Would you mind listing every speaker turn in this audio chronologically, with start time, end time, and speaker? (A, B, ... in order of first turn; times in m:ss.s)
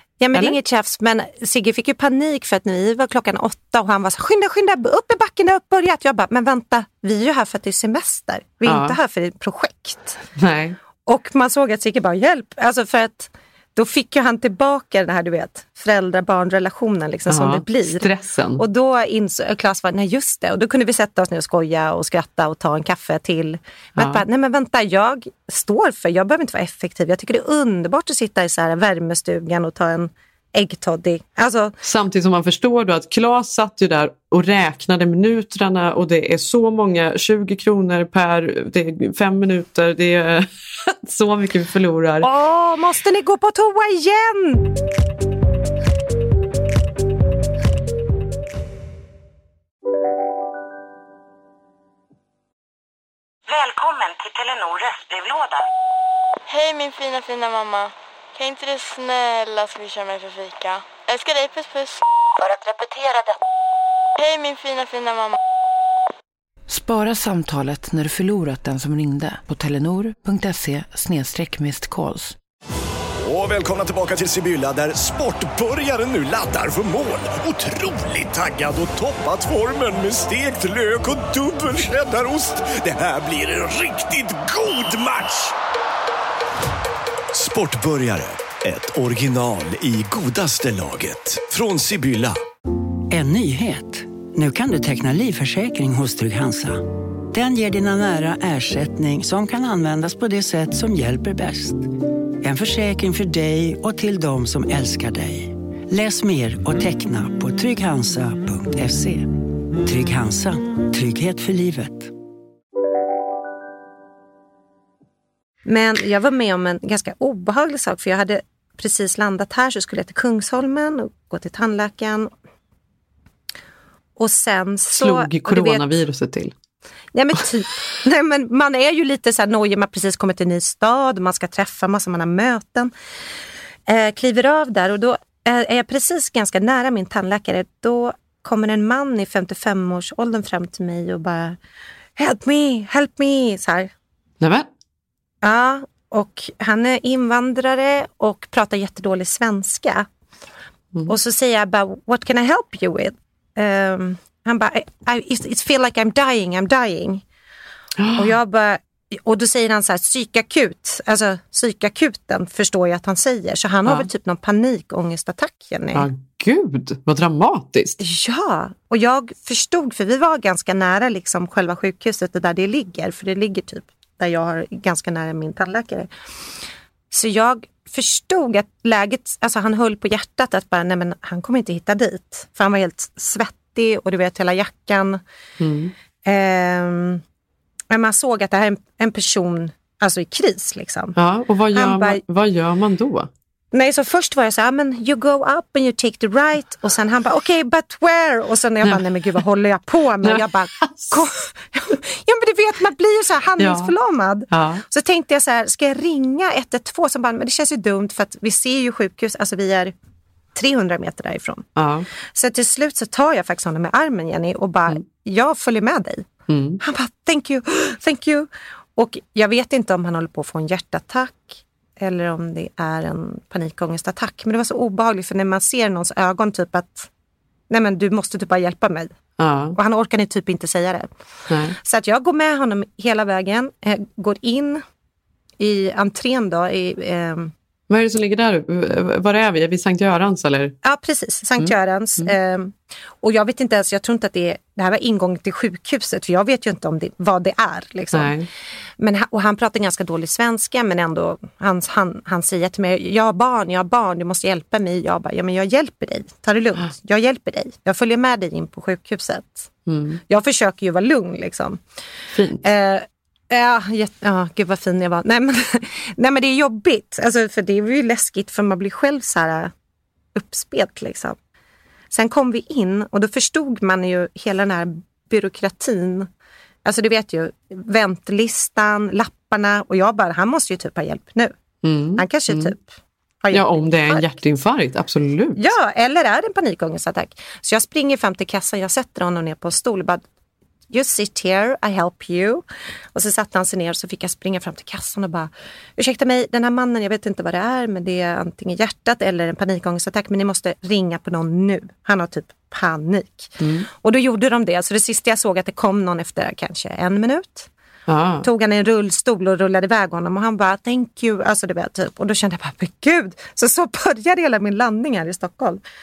0:00.2-0:10.2 A
0:08.6-0:09.0 B
0:10.4-0:10.8 B
0:11.1-0:18.1 A
0:17.3-0:18.6 B
0:18.6-0:31.8 A
0:24.0-0:24.2 B
0:31.8-0:42.3 B
0:42.2-0:44.7 A
0:53.5-0:55.7 C
0:56.5-1:02.0 D
1:02.4-1:03.4 C
1:04.2-1:05.4 D
1:06.7-1:12.4 E
1:13.2-1:25.5 F
1:27.3-1:32.4 F
1:33.1-1:41.9 G
1:42.4-1:52.1 G
1:55.6-2:02.3 A
2:04.2-2:05.9 A
2:04.9-2:06.5 B
2:07.2-2:12.9 A
2:13.9-2:21.6 A
2:22.2-2:23.9 A
2:24.4-2:24.7 B
2:25.4-2:30.1 A
2:31.1-2:37.2 A
2:38.0-2:38.4 B
2:38.2-2:46.1 A
2:45.9-2:48.0 B
2:48.0-2:56.1 A
2:57.1-3:05.2 A
3:05.6-3:05.9 B
3:06.2-3:07.2 A
3:07.9-3:11.2 A
3:11.2-3:13.3 B
3:11.7-3:12.2 A
3:13.7-3:29.9 A
3:20.2-3:21.1 B
3:23.6-3:23.9 B
3:24.5-3:24.8 B
3:30.6-3:31.7 A
3:31.8-3:32.1 B
3:32.3-3:36.3 A
3:36.5-3:36.8 B
3:36.8-3:47.1 A
3:47.7-3:49.1 A
3:49.4-3:49.8 B
3:49.7-3:51.1 A
3:51.5-3:51.8 B
3:51.8-3:54.8 A
3:55.6-3:57.5 A
3:57.9-4:00.8 B
4:00.8-4:08.3 A
4:01.6-4:02.3 B
4:08.1-4:08.5 B
4:09.0-4:19.7 A
4:19.9-4:20.2 B
4:20.3-4:21.8 A
4:22.3-4:22.6 B
4:22.6-4:29.7 A
4:30.4-4:31.4 A
4:32.1-4:36.3 A
4:36.8-4:41.5 A
4:41.8-4:42.7 B
4:42.2-4:44.2 A
4:43.5-4:45.7 B
4:45.6-4:50.2 A
4:50.9-5:07.7 A
5:03.6-5:03.9 B
5:08.1-5:08.5 B
5:08.4-5:15.8 A